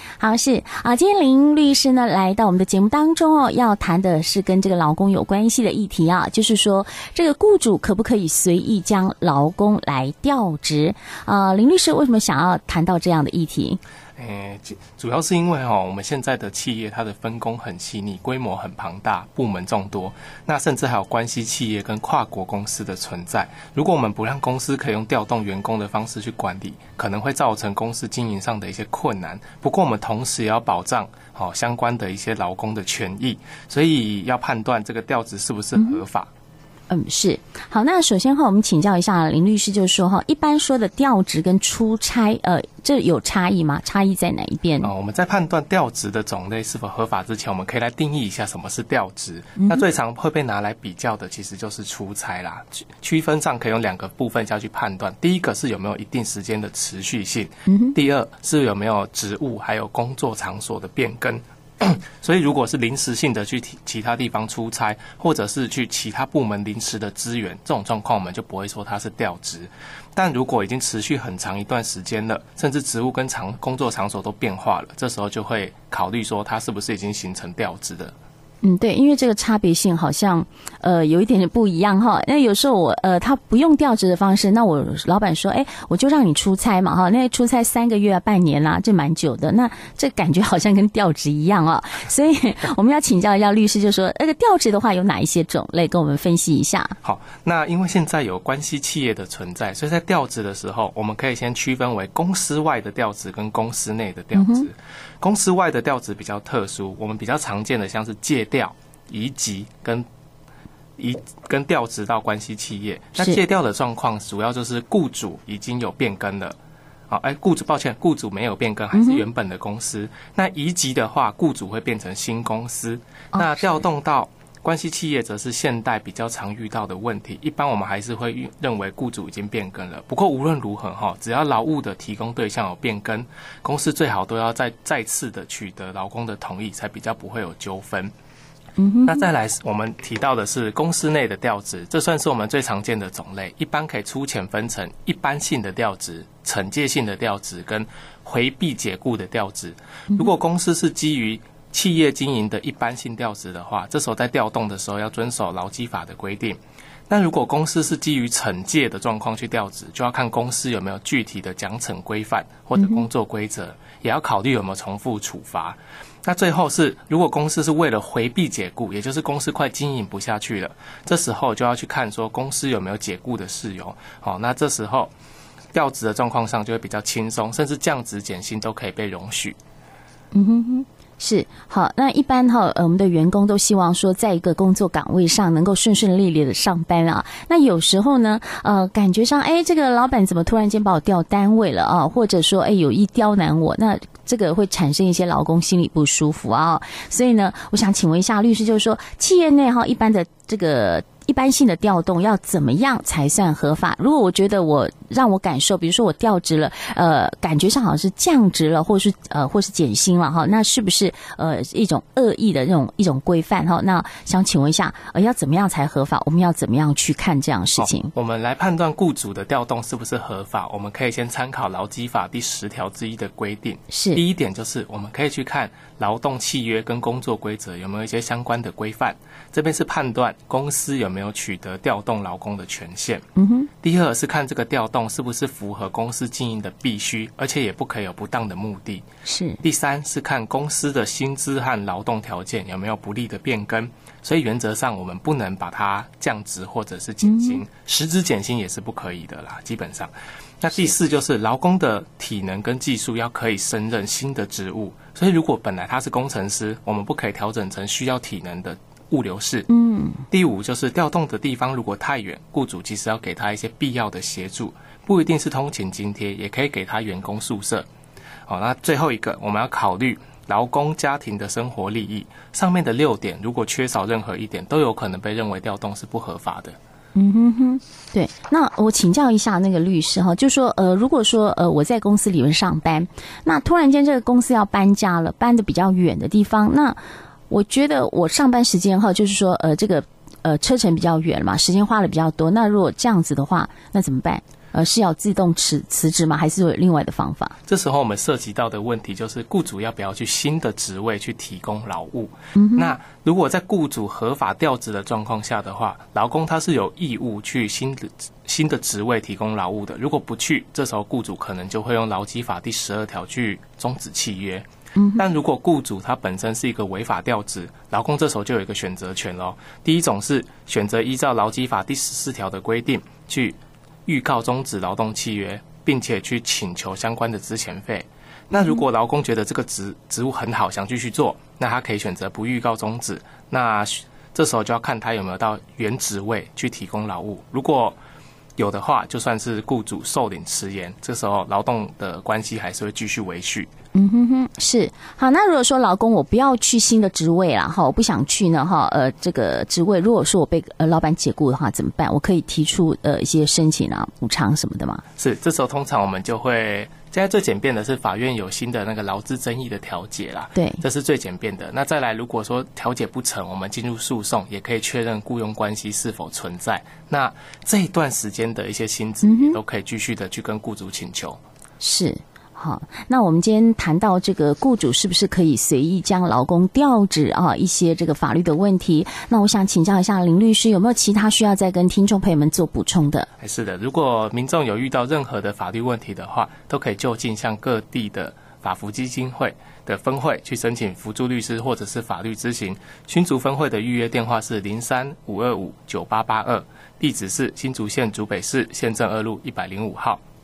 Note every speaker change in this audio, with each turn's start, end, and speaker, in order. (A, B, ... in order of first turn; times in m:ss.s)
0:00.2-0:13.8 A
0:14.2-0:36.3 B
0:35.8-0:36.0 A
0:36.9-0:44.9 A
0:44.8-1:18.2 B
0:49.6-0:49.8 A
0:57.7-0:58.0 A
1:18.6-1:36.9 A
1:37.0-1:50.1 B
1:44.3-1:44.7 A
1:51.0-1:56.6 B
1:57.1-2:18.1 B
1:58.9-1:59.2 A
2:18.8-2:19.3 A
2:19.1-2:55.1 B
2:42.8-2:43.0 A
2:55.7-2:59.6 B
3:00.3-3:38.1 A
3:37.8-3:53.2 B
3:43.9-3:44.2 A
3:53.4-3:53.7 A
3:53.8-3:59.0 B
3:59.2-3:59.6 A
3:59.6-4:19.7 B
4:07.2-4:07.6 A
4:19.7-4:20.2 A
4:20.3-4:27.9 B
4:28.5-4:36.8 B
4:37.2-4:47.0 A
4:47.5-4:57.6 A
4:57.7-5:38.0 B
5:02.6-5:03.0 A
5:15.0-5:15.2 A
5:28.5-5:28.8 A
5:38.6-5:43.7 B
5:44.0-5:55.0 A
5:55.2-6:11.4 B
6:00.6-6:00.8 A
6:09.2-6:09.6 A
6:11.8-6:23.3 A
6:23.4-6:40.2 B